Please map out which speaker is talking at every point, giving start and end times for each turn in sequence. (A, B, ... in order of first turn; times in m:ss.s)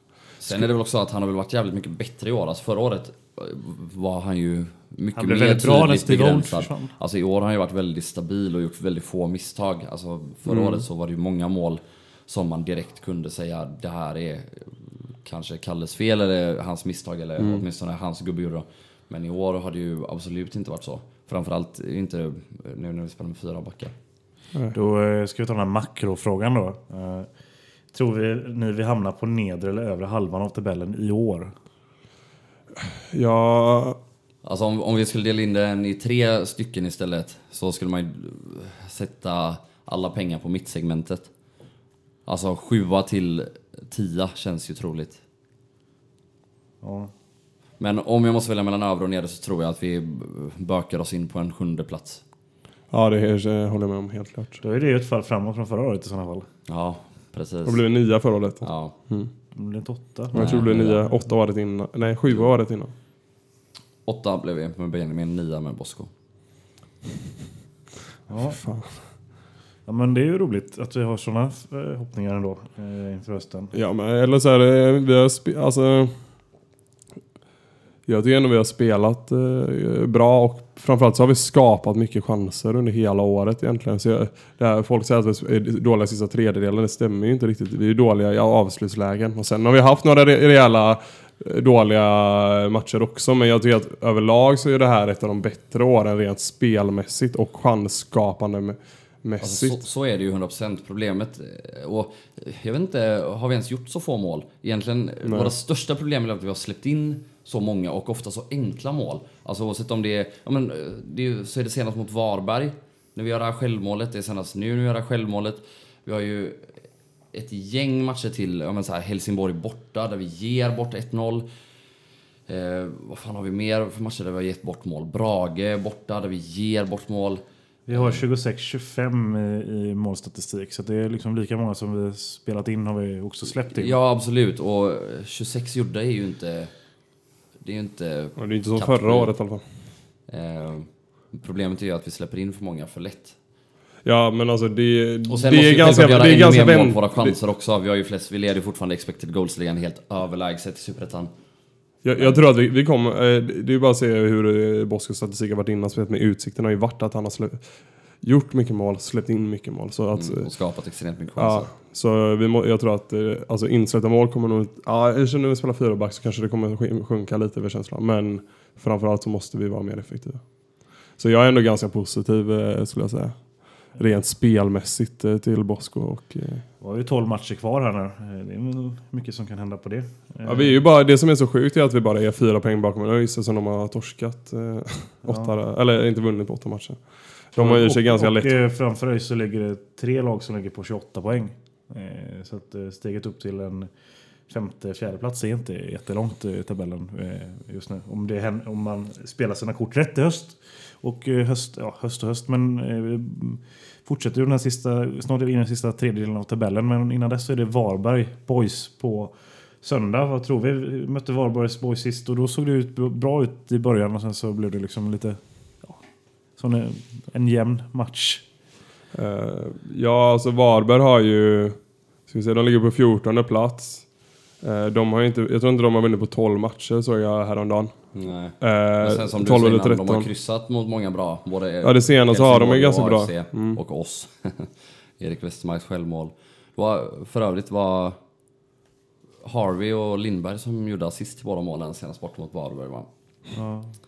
0:00.4-0:23.9 A
0:05.2-0:06.9 B
0:10.5-0:10.8 C
0:24.7-0:27.3 B
0:27.9-0:31.5 B
0:32.8-0:34.0 C
0:34.4-0:41.3 A
0:42.2-0:45.2 A
0:46.8-0:47.1 B
0:47.8-0:52.2 A
0:52.9-0:54.6 C
0:54.6-0:56.5 B
0:56.7-0:57.8 A
0:57.6-0:59.3 C
0:58.6-0:58.9 A
0:59.5-1:00.7 B
1:00.3-1:02.9 C
1:00.3-1:01.1 A
1:04.0-1:06.1 A
1:08.3-1:08.6 B
1:08.6-1:09.0 C
1:09.8-1:13.7 B
1:13.7-1:16.2 C
1:18.0-1:39.8 C
1:39.4-1:56.8 A
1:45.2-1:45.5 C
1:57.3-2:01.5 A
2:02.5-2:08.2 A
2:07.9-2:14.0 B
2:13.7-2:16.7 A
2:17.6-2:19.3 A
2:18.4-2:19.6 C
2:20.3-2:23.4 A
2:24.0-2:27.3 C
2:25.3-2:31.3 A
2:32.0-2:40.5 C
2:32.2-2:32.4 A
2:40.1-2:41.7 A
2:41.4-2:50.4 C
2:51.2-2:56.6 C
2:56.8-3:00.7 B
3:00.4-3:08.5 C
3:05.3-3:05.5 B
3:07.6-3:36.0 B
3:36.6-3:38.4 B
3:39.1-3:48.0 C
3:48.1-3:58.2 A
3:48.6-3:50.3 C
3:51.8-3:53.8 C
3:59.4-4:03.1 A
4:03.5-4:03.9 B